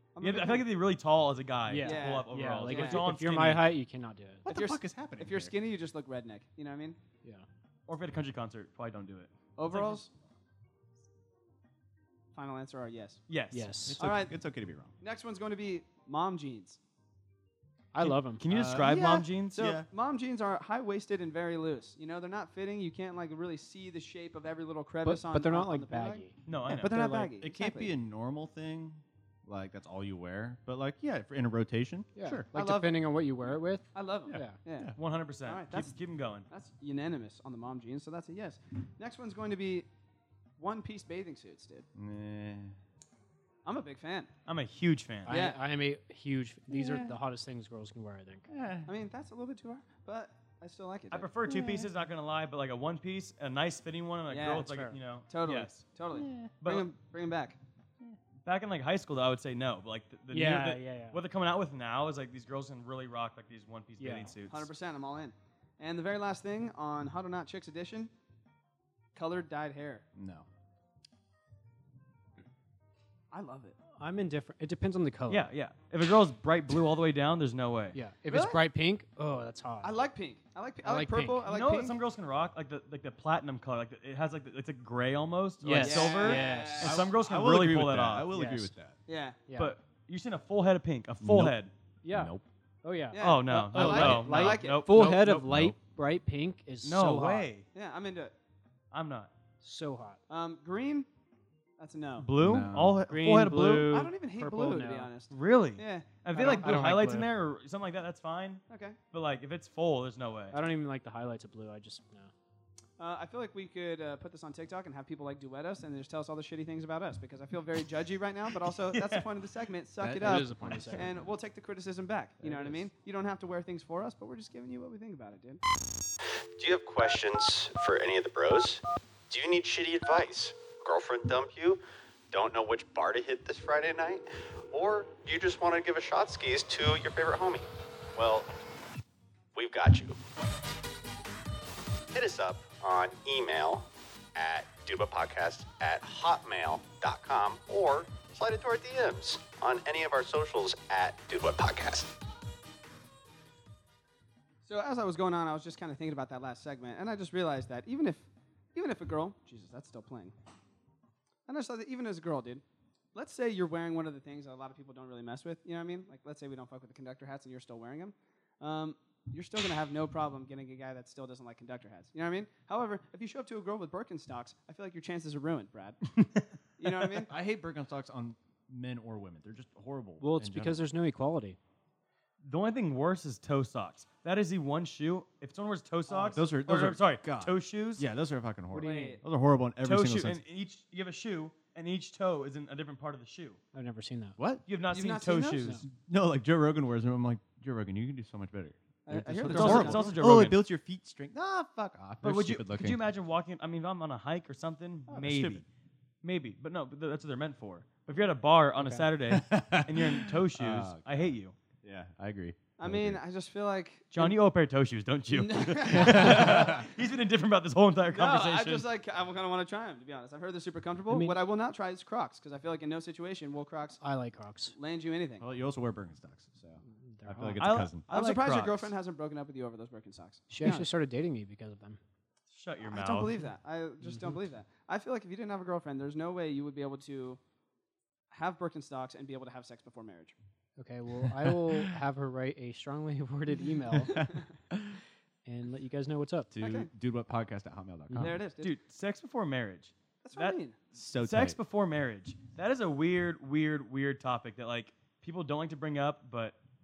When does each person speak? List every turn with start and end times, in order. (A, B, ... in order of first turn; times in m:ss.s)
0:00.2-0:00.6 A
0:00.2-0:03.7 B
0:01.7-0:04.5 C
0:01.8-0:03.0 A
0:04.5-0:05.5 D
0:04.5-0:07.0 A
0:07.9-0:10.1 B
0:09.6-0:10.1 A
0:12.3-0:13.2 A
0:13.3-0:13.7 B
0:13.5-0:14.0 C
0:13.9-0:15.0 D
0:14.0-0:14.4 A
0:15.0-0:16.8 A
0:17.9-0:18.4 C
0:18.0-0:19.6 B
0:18.5-0:19.9 D
0:19.5-0:27.9 A
0:25.0-0:27.3 C
0:26.5-0:26.9 B
0:27.4-0:32.5 D
0:32.2-0:34.6 C
0:32.5-0:34.9 A
0:34.3-0:35.0 D
0:35.0-0:36.5 B
0:35.5-0:36.0 A
0:36.5-0:39.9 A
0:40.6-0:41.9 A
0:42.0-0:42.8 D
0:43.6-0:44.3 A
0:44.5-0:45.4 B
0:45.2-0:48.5 C
0:45.3-0:45.6 A
0:46.7-0:47.2 D
0:48.5-0:48.9 D
0:48.9-0:51.3 A
0:51.1-0:55.8 B
0:51.5-0:51.9 D
0:54.3-0:57.6 A
0:54.7-0:55.0 C
0:56.1-0:56.5 D
0:56.6-0:56.9 B
0:58.4-1:04.7 B
1:00.3-1:01.2 C
1:04.0-1:04.4 C
1:04.5-1:08.1 A
1:09.1-1:10.0 A
1:10.2-1:10.5 D
1:13.3-1:13.8 A
1:14.0-1:15.5 C
1:15.3-1:18.0 B
1:17.9-1:20.0 C
1:18.3-1:18.6 A
1:19.8-1:22.0 A
1:20.8-1:21.5 C
1:21.5-1:28.3 B
1:25.6-1:27.0 C
1:25.8-1:27.0 A
1:26.8-1:29.0 D
1:28.3-1:28.7 C
1:29.1-1:29.4 A
1:29.5-1:29.8 C
1:29.6-1:31.7 B
1:31.2-1:32.5 D
1:32.0-1:37.5 C
1:33.1-1:34.9 A
1:33.2-1:35.5 B
1:35.0-1:35.8 D
1:36.8-1:37.7 B
1:37.7-1:38.3 A
1:38.9-1:39.3 B
1:39.6-1:40.2 C
1:40.3-1:41.1 A
1:41.8-1:42.3 A
1:42.2-1:44.0 B
1:42.4-1:43.0 D
1:43.1-1:45.1 C
1:43.9-1:46.9 A
1:45.3-1:50.6 B
1:46.4-1:47.3 C
1:48.7-1:49.0 A
1:50.5-1:52.3 C
1:53.0-2:05.6 A
1:58.9-1:59.3 B
2:00.0-2:01.2 D
2:00.1-2:01.1 C
2:02.4-2:02.9 D
2:06.6-2:18.5 E
2:19.5-2:20.2 E
2:22.1-2:32.1 E
2:34.6-2:40.4 A
2:41.5-2:42.6 A
2:43.1-2:56.2 A
2:56.8-2:57.3 A
2:57.3-3:00.9 D
3:00.2-3:01.6 C
3:02.4-3:08.0 B
3:06.1-3:06.4 A
3:06.4-3:10.4 D
3:08.7-3:09.2 C
3:08.8-3:09.2 A
3:09.8-3:13.6 B
3:13.7-3:14.4 C
3:14.4-3:14.6 D
3:14.7-3:15.8 B
3:14.9-3:15.8 A
3:15.8-3:23.1 D
3:19.1-3:20.2 A
3:19.4-3:20.6 B
3:22.2-3:25.6 B
3:25.2-3:25.6 D
3:26.2-3:31.6 B
3:28.8-3:29.0 C
3:29.3-3:33.2 D
3:32.8-3:34.4 A
3:34.1-3:38.9 B
3:35.3-3:36.9 A
3:36.1-3:36.9 D
3:38.1-3:44.0 A
3:41.1-3:41.4 C
3:44.0-3:44.8 C
3:44.7-3:45.5 A
3:45.4-3:48.0 D
3:47.0-3:47.7 C
3:47.6-3:48.9 B
3:48.1-3:50.9 A
3:50.5-3:52.0 C
3:52.5-3:53.5 B
3:52.9-3:57.4 A
3:54.0-3:54.4 C
3:58.3-4:00.4 A
4:00.8-4:04.2 C
4:04.1-4:05.0 D
4:05.4-4:06.5 C
4:06.5-4:08.4 D
4:06.6-4:06.9 A
4:08.1-4:08.4 C
4:08.2-4:08.8 A
4:08.6-4:10.6 B
4:10.2-4:10.8 A
4:10.9-4:11.6 D
4:11.2-4:16.6 B